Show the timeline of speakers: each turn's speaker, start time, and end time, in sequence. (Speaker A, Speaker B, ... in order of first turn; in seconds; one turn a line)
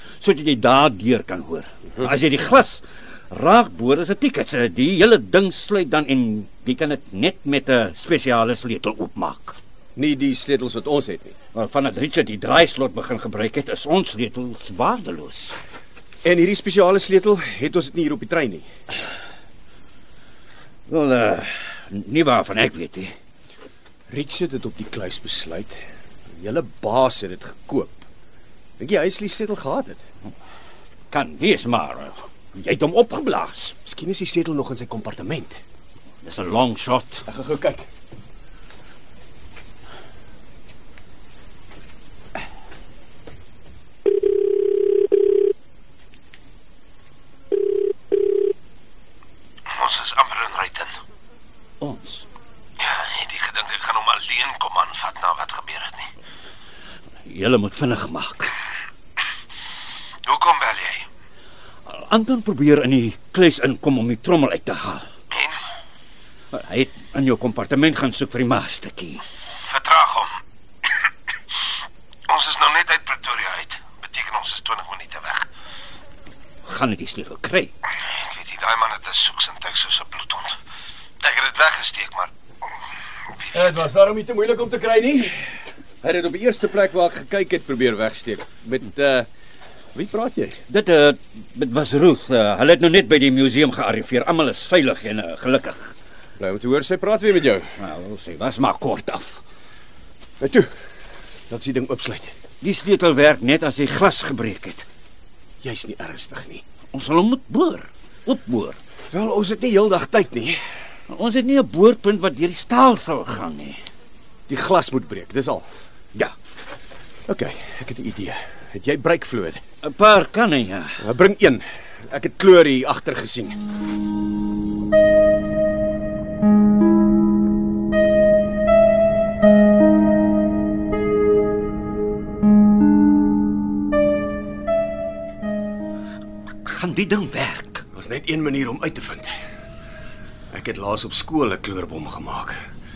Speaker A: 0.2-9.6
Speaker B: 10.0-11.4
Speaker A: 11.5-15.6
Speaker B: 16.2-18.7
Speaker A: 20.9-23.1
Speaker B: 24.1-25.8
Speaker B: 26.4-28.1
Speaker B: 28.8-30.0
Speaker A: 31.1-33.8
Speaker B: 33.9-35.6
Speaker A: 36.2-37.2
Speaker B: 37.3-37.9
Speaker C: 49.7-50.9
Speaker A: 51.8-52.2
Speaker C: 52.8-56.1
Speaker A: 57.2-58.5
Speaker C: 60.2-61.1
Speaker A: 61.9-65.1
Speaker A: 66.5-69.2
Speaker C: 69.7-70.3
Speaker C: 72.3-75.5
Speaker A: 76.6-77.7
Speaker C: 78.1-80.6
Speaker C: 81.2-82.3
Speaker B: 83.5-85.5
Speaker B: 86.0-89.3
Speaker B: 89.9-90.6
Speaker A: 90.7-95.9
Speaker B: 96.4-97.7
Speaker A: 97.8-99.4
Speaker B: 100.4-100.7
Speaker B: 101.5-102.3
Speaker A: 102.6-104.8
Speaker B: 105.6-106.6
Speaker A: 106.9-108.8
Speaker B: 109.1-110.6
Speaker A: 111.1-113.8
Speaker B: 114.5-115.7
Speaker B: 117.3-119.6
Speaker A: 119.8-121.0
Speaker B: 121.0-123.6
Speaker A: 136.6-137.8
Speaker B: 137.9-139.3
Speaker B: 140.5-142.6